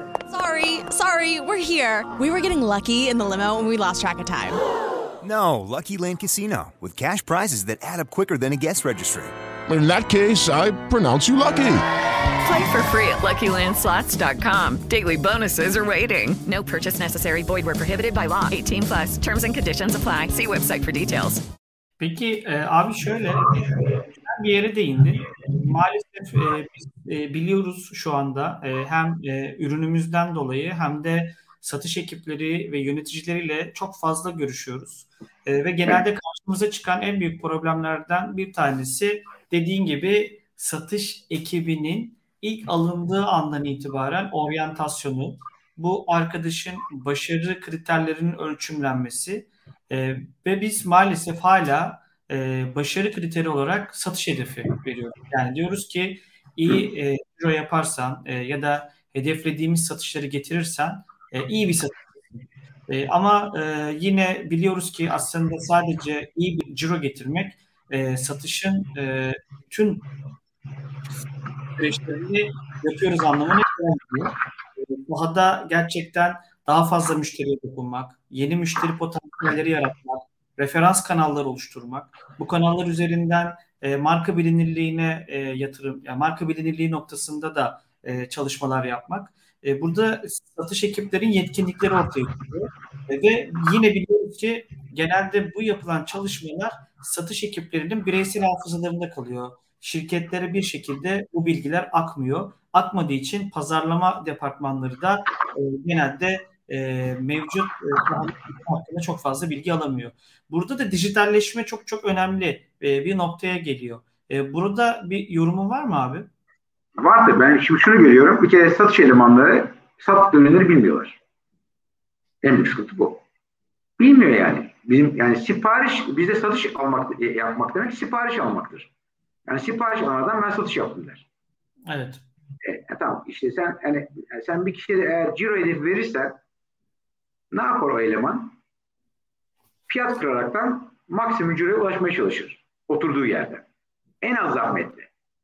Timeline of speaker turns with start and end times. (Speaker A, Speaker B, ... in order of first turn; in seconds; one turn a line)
Speaker A: 0.3-4.6
Speaker B: 5.2-9.3
Speaker C: 9.7-11.8
Speaker D: 12.4-21.4
Speaker E: 22.0-70.0
Speaker E: 71.8-116.3
Speaker F: 117.0-121.2
Speaker F: 122.4-123.2
Speaker F: 124.0-128.9
Speaker F: 129.4-131.2
Speaker E: 131.9-132.2
Speaker F: 132.6-136.4
Speaker F: 137.5-138.6
Speaker F: 139.9-143.6
Speaker F: 144.2-145.1